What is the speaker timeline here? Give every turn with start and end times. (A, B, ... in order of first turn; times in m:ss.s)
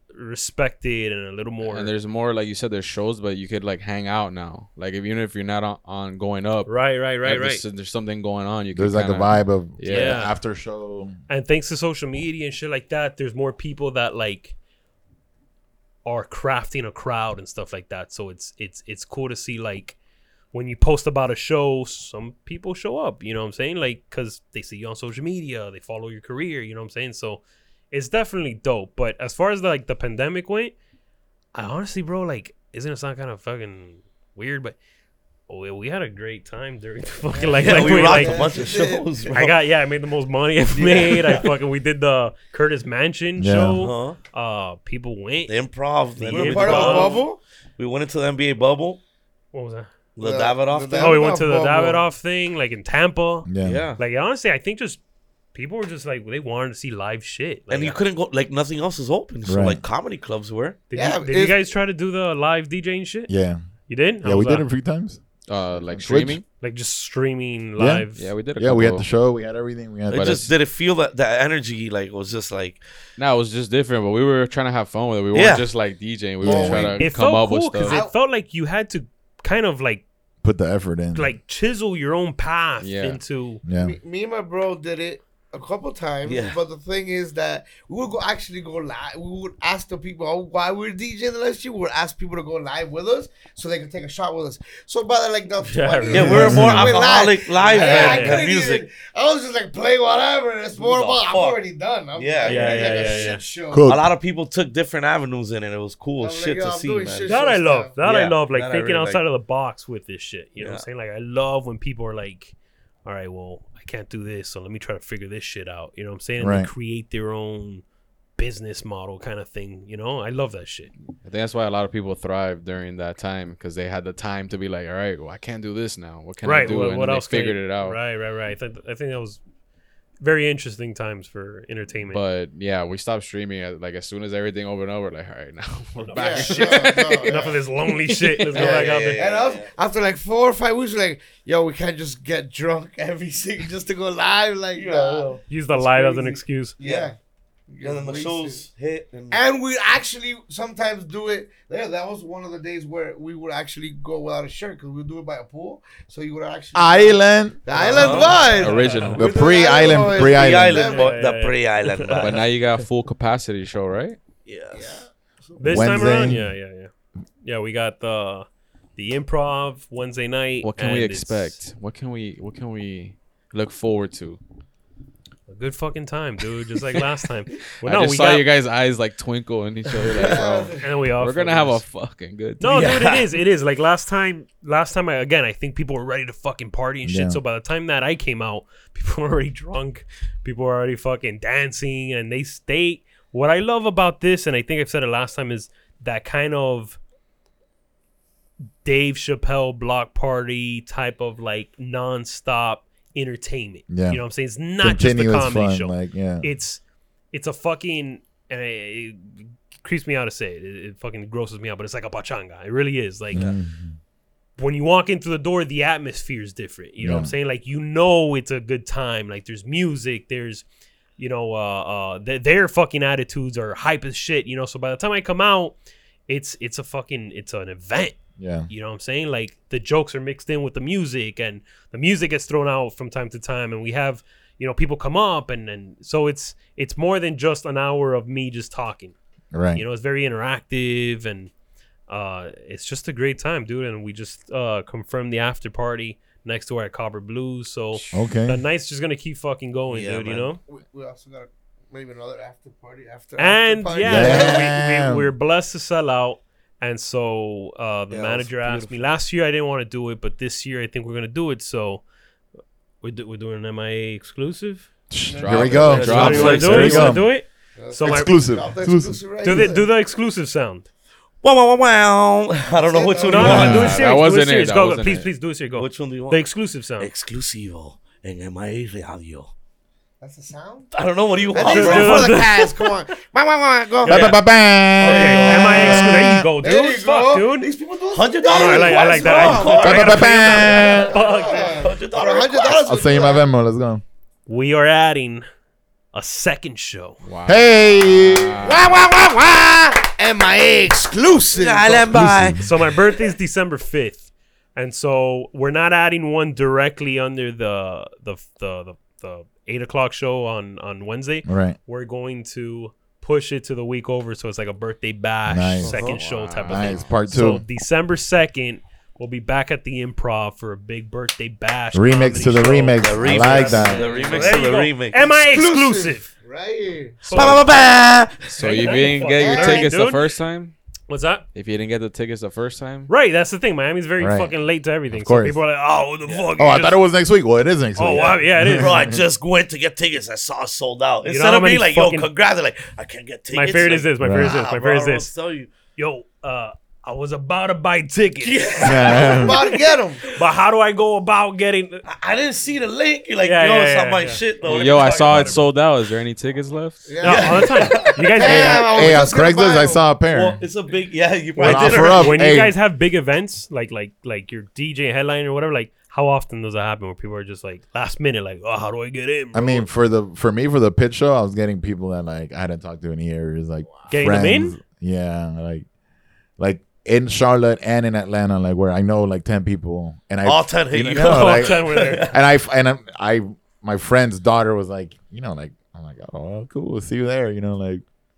0:00.1-0:01.9 A
0:01.6-0:10.3 B
0:06.7-0:07.6 A
0:08.7-0:11.2 C
0:09.9-0:10.4 A
0:11.3-0:14.6 A
0:16.0-0:20.0 A
0:20.5-0:30.7 A
0:31.6-0:34.8 A
0:35.5-0:38.5 A
0:37.3-0:39.1 D
0:37.6-0:39.6 E
0:39.3-0:45.6 A
0:40.8-0:41.0 E
0:40.8-0:41.4 D
0:43.4-0:43.8 C
0:43.8-0:44.2 E
0:45.5-0:49.0 E
0:46.2-0:47.2 A
0:46.2-0:47.4 D
0:49.5-0:49.9 A
0:50.2-0:51.2 E
0:50.2-0:52.0 D
0:51.0-0:55.0 A
0:53.5-0:53.8 C
0:53.6-0:54.0 E
0:55.5-0:58.0 A
0:57.7-1:00.8 E
0:59.4-0:59.8 C
1:00.9-1:03.3 A
1:00.9-1:01.6 D
1:03.3-1:03.6 C
1:03.9-1:04.7 A
1:04.2-1:05.2 C
1:05.5-1:06.4 B
1:05.8-1:06.4 C
1:06.6-1:08.3 A
1:07.8-1:10.3 C
1:08.2-1:09.1 B
1:10.1-1:12.8 E
1:10.1-1:10.5 B
1:13.2-1:18.0 B
1:15.3-1:15.7 E
1:16.4-1:17.0 C
1:16.4-1:17.0 D
1:17.0-1:20.0 A
1:17.9-1:18.1 D
1:20.4-1:21.4 C
1:21.1-1:23.6 A
1:22.8-1:23.2 B
1:23.6-1:24.0 C
1:23.7-1:44.0 D
1:26.2-1:26.6 E
1:35.6-1:36.7 A
1:36.1-1:38.8 E
1:36.3-1:37.0 C
1:37.7-1:38.4 A
1:40.8-1:41.6 E
1:42.1-1:47.4 E
1:42.4-1:43.4 A
1:43.7-1:44.1 C
1:46.2-1:48.0 D
1:47.2-1:52.5 A
1:48.0-1:49.2 E
1:50.6-1:50.8 E
1:53.0-1:57.8 A
1:56.4-1:56.7 C
1:58.4-2:00.9 A
2:01.2-2:08.0 B
2:06.4-2:09.4 A
2:10.2-2:12.2 A
2:12.1-2:18.6 B
2:16.0-2:19.3 A
2:16.2-2:17.6 D
2:18.5-2:19.7 E
2:18.5-2:26.3 D
2:24.7-2:25.5 E
2:25.5-2:26.8 A
2:26.0-2:27.1 E
2:26.8-2:27.2 D
2:27.7-2:28.7 D
2:27.8-2:29.4 E
2:29.3-2:41.2 D
2:36.8-2:37.6 C
2:37.8-2:39.2 A
2:37.8-2:38.7 E
2:38.0-2:39.3 B
2:39.2-2:40.9 C
2:39.7-2:42.5 E
2:40.8-2:42.4 A
2:42.2-2:44.2 B
2:44.5-2:45.0 E
2:44.7-2:46.4 D
2:45.6-2:46.9 A
2:45.7-2:46.5 C
2:47.4-2:48.5 A
2:49.0-2:51.6 A
2:50.6-2:54.4 B
2:55.5-2:58.5 A
2:57.8-3:02.9 B
3:00.1-3:00.9 D
3:00.8-3:01.8 A
3:02.6-3:17.0 A
3:02.7-3:03.3 E
3:07.0-3:07.4 C
3:18.8-3:26.8 A
3:23.9-3:24.2 C
3:24.8-3:26.5 C
3:27.3-3:33.5 A
3:33.3-3:34.0 C
3:34.6-3:40.7 A
3:37.0-3:37.3 C
3:41.2-3:45.8 A
3:46.3-3:48.2 A
3:48.4-3:48.7 C
3:48.7-3:59.2 A
3:59.5-3:59.8 C
3:59.7-4:01.5 A
4:02.1-4:10.6 A
4:08.1-4:08.6 C
4:09.9-4:10.5 E
4:10.6-4:14.7 D
4:13.4-4:22.0 A
4:14.0-4:15.3 C
4:18.1-4:19.1 E
4:23.0-4:24.9 A
4:25.1-4:27.3 C
4:25.2-4:26.8 D
4:25.4-4:27.1 B
4:25.6-4:27.2 E
4:26.1-4:28.4 A
4:27.8-4:29.9 D
4:28.0-4:29.7 C
4:29.4-4:30.9 A
4:31.4-4:34.0 E
4:32.8-4:33.8 D
4:33.2-4:37.1 A
4:33.5-4:35.3 B
4:33.5-4:33.9 C
4:35.7-4:36.4 E
4:37.0-4:39.5 E
4:40.2-4:40.9 D
4:40.9-4:42.5 E
4:41.5-4:44.4 D
4:41.6-4:42.8 A
4:44.0-4:46.5 C
4:44.1-4:44.4 A
4:45.0-4:46.1 E
4:45.0-4:47.7 A
4:45.3-4:53.5 D
4:48.1-4:50.2 E
4:48.5-4:51.9 A
4:49.7-4:51.2 C
4:51.5-4:53.0 E
4:52.8-4:54.0 C
4:54.5-4:55.5 A
4:56.1-4:57.2 A
4:57.2-4:59.0 B
4:57.5-4:58.6 C
4:58.6-5:02.3 D
5:01.5-5:02.7 E
5:02.1-5:02.6 C
5:02.6-5:04.2 A
5:04.8-5:26.3 A
5:11.4-5:11.8 C
5:15.5-5:15.9 C
5:15.8-5:16.2 E
5:15.9-5:17.1 B
5:16.7-5:17.6 C
5:21.9-5:24.1 C
5:23.0-5:25.2 E
5:23.5-5:24.7 B
5:23.8-5:24.1 D
5:25.2-5:27.5 D
5:27.2-5:28.9 E
5:27.3-5:27.7 A
5:28.5-5:30.8 B
5:28.6-5:30.3 A
5:29.4-5:29.9 D
5:31.1-5:31.4 A
5:31.5-5:33.1 B
5:33.1-5:37.0 A
5:34.2-5:35.6 C
5:36.3-5:36.5 E
5:36.6-5:39.2 C
5:38.0-5:39.0 A
5:38.6-5:45.7 E
5:41.2-5:42.3 A
5:43.5-5:45.3 A
5:44.2-5:44.6 C
5:46.0-5:49.8 A
5:48.4-5:49.4 E
5:48.8-5:49.6 C
5:49.0-5:50.2 D
5:50.3-5:52.0 A
5:52.1-5:55.5 E
5:53.4-5:55.7 A
5:54.6-5:57.1 B
5:57.1-6:00.2 D
5:57.2-5:58.9 A
5:57.2-5:59.3 E
5:58.7-6:00.6 C
6:00.3-6:02.5 E
6:01.6-6:02.8 C
6:01.6-6:09.9 A
6:09.5-6:15.9 C
6:13.9-6:14.2 D
6:14.1-6:14.8 A
6:16.6-6:28.0 C
6:20.4-6:22.4 E
6:21.2-6:22.3 A